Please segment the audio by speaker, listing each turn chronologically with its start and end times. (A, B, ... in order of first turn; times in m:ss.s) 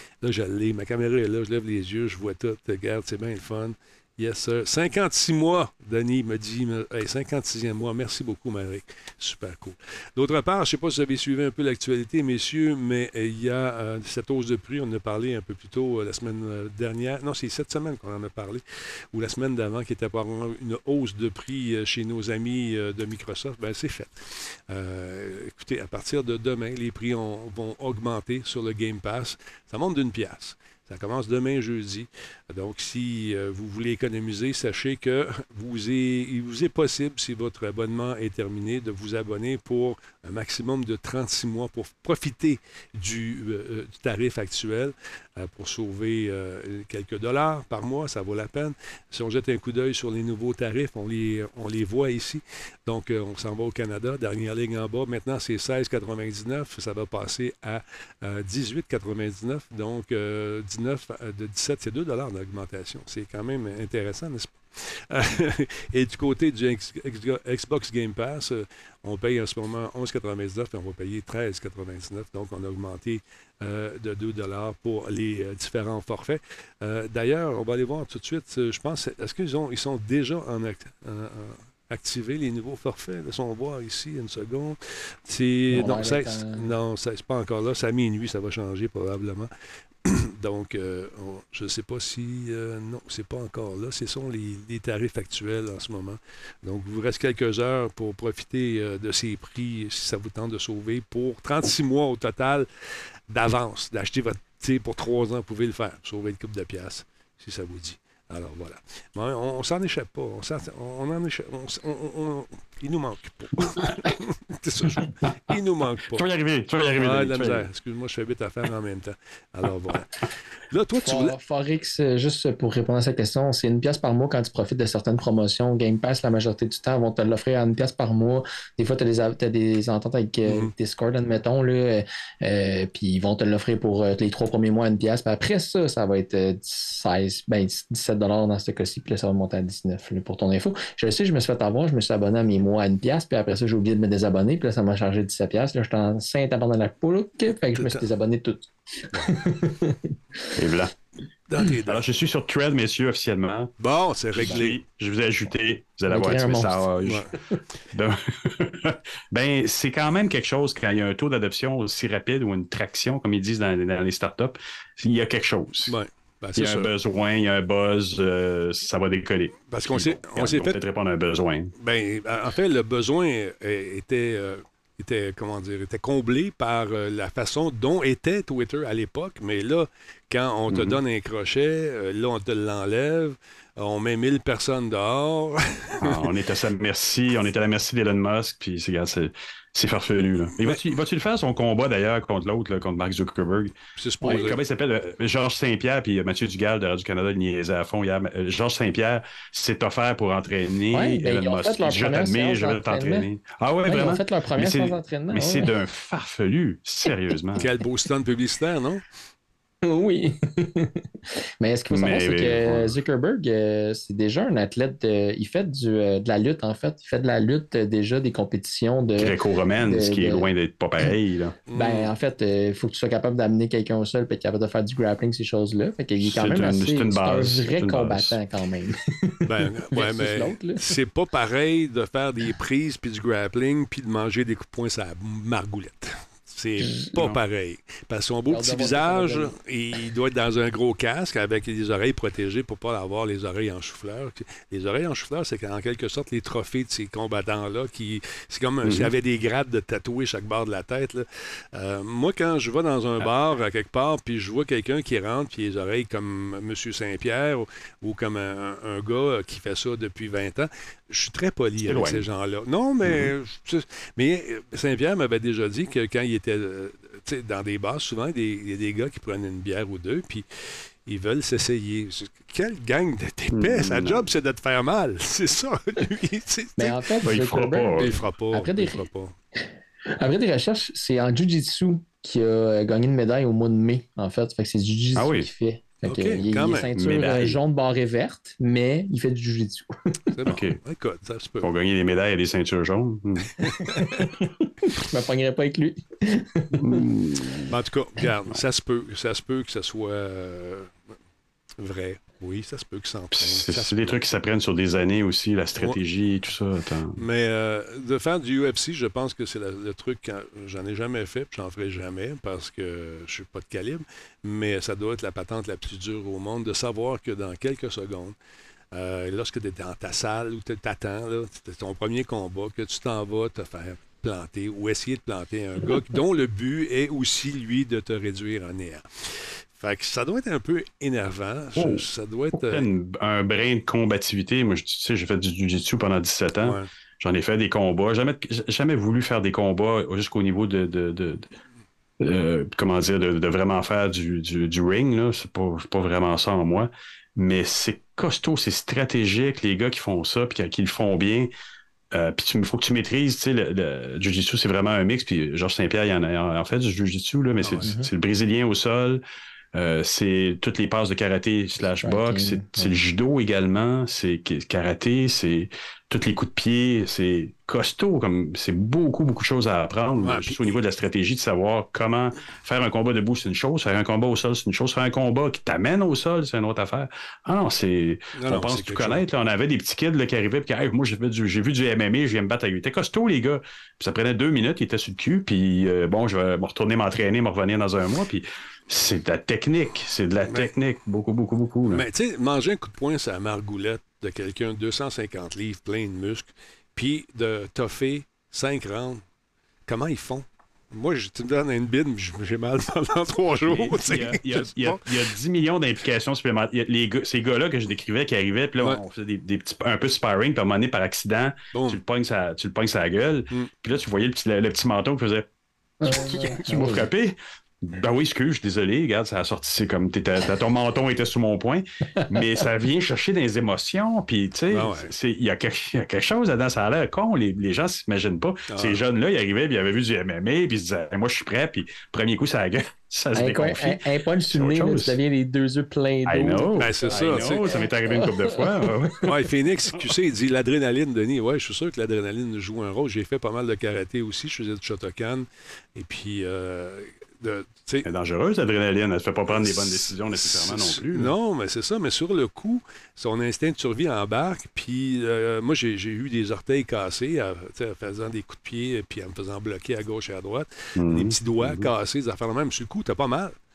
0:00.2-1:29.5 A
1:25.7-1:26.7 B
1:30.0-1:42.7 A
1:43.3-1:56.2 A
1:56.1-1:57.7 C
1:56.8-2:00.1 A
2:00.7-2:01.3 A
2:01.0-2:30.1 B
2:10.4-2:10.7 A
2:27.7-2:28.0 A
2:30.6-2:30.9 C
2:31.5-2:32.1 A
2:31.8-2:33.7 C
2:33.8-2:34.8 A
2:34.3-2:37.3 C
2:36.1-2:36.8 B
2:37.0-2:37.3 A
2:37.9-2:46.0 C
2:45.9-2:46.9 A
2:46.6-2:51.7 C
2:49.7-2:50.8 A
2:51.8-3:06.3 A
3:00.7-3:01.0 C
3:06.0-3:13.8 C
3:14.0-3:14.6 A
3:14.3-3:27.7 C
3:20.9-3:23.3 B
3:23.9-3:25.7 B
3:27.6-3:29.0 A
3:29.8-3:31.0 B
3:31.6-3:40.5 B
3:31.9-3:33.0 C
3:39.2-3:41.6 C
3:41.7-3:42.1 A
3:41.7-3:50.8 B
3:46.2-3:48.4 C
3:49.4-4:37.2 A
3:56.8-3:57.1 B
3:58.5-3:59.5 B
4:08.8-4:09.1 C
4:21.8-4:22.2 C
4:33.5-4:34.3 C
4:36.8-4:39.0 B
4:37.2-4:38.2 C
4:38.0-4:39.4 A
4:40.2-4:50.2 B
4:45.2-4:45.5 C
4:46.0-4:47.0 A
4:47.0-4:47.6 C
4:50.3-4:51.7 A
4:50.4-4:50.8 C
4:51.6-4:53.7 C
4:53.6-4:54.3 A
4:53.8-4:57.0 B
4:56.7-4:57.7 C
4:57.7-5:01.0 A
5:01.8-5:04.2 A
5:03.3-5:07.2 C
5:07.2-5:18.3 A
5:18.9-5:32.9 A
5:31.8-5:41.5 C
5:36.6-5:36.9 A
5:42.2-5:51.5 C
5:52.1-5:59.2 C
5:57.6-5:57.9 A
5:57.8-5:58.1 B
5:59.7-6:32.0 C
6:02.0-6:02.9 B
6:10.2-6:10.7 A
6:18.4-6:19.2 A
6:31.9-6:39.2 A
6:39.9-6:45.1 A
6:43.7-6:55.5 C
6:51.7-6:52.0 A
6:56.0-6:57.1 B
6:56.0-7:15.2 C
7:04.7-7:05.1 A
7:08.7-7:09.0 A
7:13.3-7:19.3 B
7:16.2-7:19.3 C
7:16.8-7:17.6 A
7:19.2-7:28.1 A
7:28.0-7:31.3 C
7:29.5-7:43.5 A
7:41.0-7:41.9 C